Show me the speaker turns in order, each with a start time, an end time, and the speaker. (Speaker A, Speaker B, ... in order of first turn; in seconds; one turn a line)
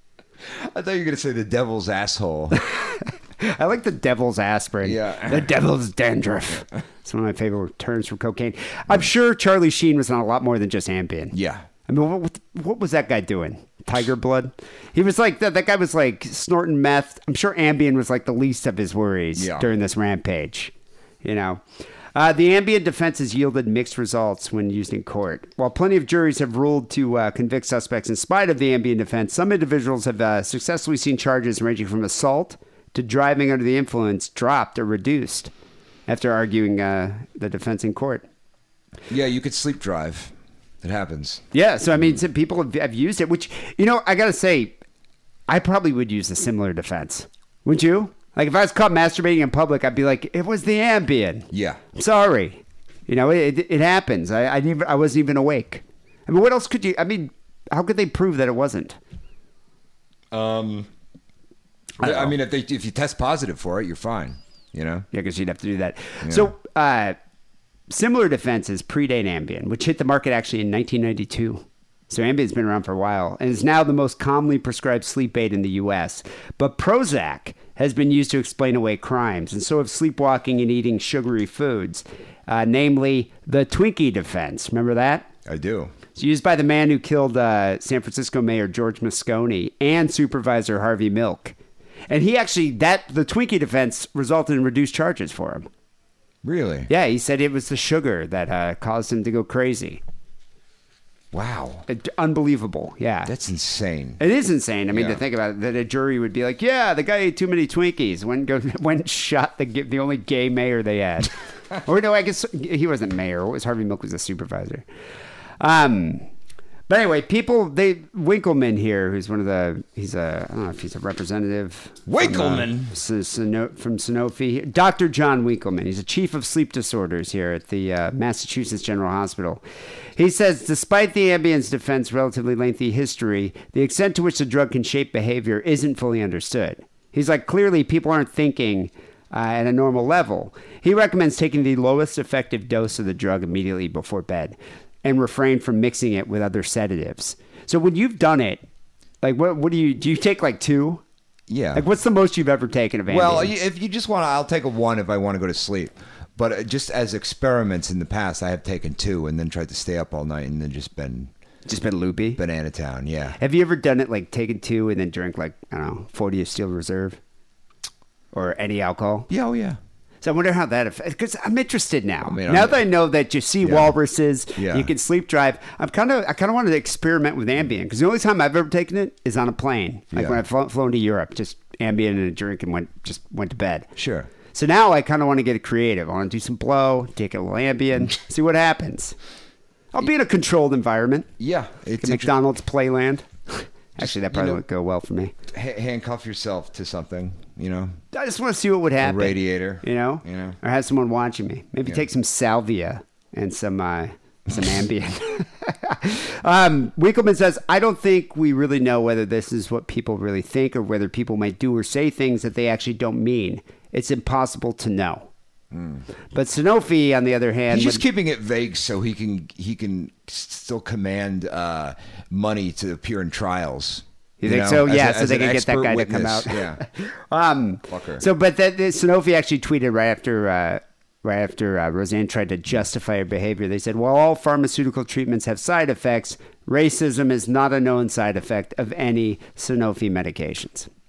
Speaker A: 0.5-2.6
Speaker B: 2.7-11.3
Speaker A: 4.8-5.5
Speaker A: 11.3-11.7
Speaker B: 11.9-21.6
Speaker A: 19.4-19.7
Speaker B: 22.1-35.5
Speaker B: 36.1-38.2
Speaker A: 39.1-41.4
Speaker B: 41.5-44.8
Speaker B: 45.5-59.0
Speaker A: 51.5-51.8
Speaker A: 60.3-60.9
Speaker A: 62.0-65.1
Speaker B: 62.0-62.3
Speaker B: 65.1-67.2
Speaker A: 66.2-66.5
Speaker B: 67.9-85.3
Speaker A: 85.5-85.9
Speaker B: 86.2-91.6
Speaker B: 92.1-95.7
Speaker A: 96.4-96.9
Speaker B: 96.9-100.0
Speaker A: 101.3-101.9
Speaker B: 101.9-103.3
Speaker A: 103.3-104.2
Speaker B: 104.2-114.8
Speaker A: 104.9-105.2
Speaker B: 115.6-116.2
Speaker B: 116.9-129.6
Speaker A: 122.1-122.9
Speaker B: 130.2-148.6
Speaker B: 149.2-151.0
Speaker A: 151.5-151.8
Speaker B: 151.7-153.5
Speaker A: 153.1-161.3
Speaker B: 161.7-162.4
Speaker A: 162.4-163.4
Speaker B: 163.4-167.2
Speaker B: 168.3-169.3
Speaker A: 169.3-169.8
Speaker B: 170.2-183.9
Speaker A: 172.2-172.8
Speaker A: 173.6-174.0
Speaker A: 174.6-174.9
Speaker A: 180.1-180.4
Speaker A: 184.0-184.3
Speaker B: 184.5-189.2
Speaker B: 189.9-191.3
Speaker A: 191.4-192.3
Speaker B: 192.0-195.3
Speaker A: 194.0-194.6
Speaker A: 195.5-198.0
Speaker B: 198.1-215.3
Speaker A: 199.0-200.6
Speaker A: 215.7-216.1
Speaker B: 216.3-218.0
Speaker A: 217.7-226.8
Speaker B: 224.4-240.9
Speaker A: 227.9-228.2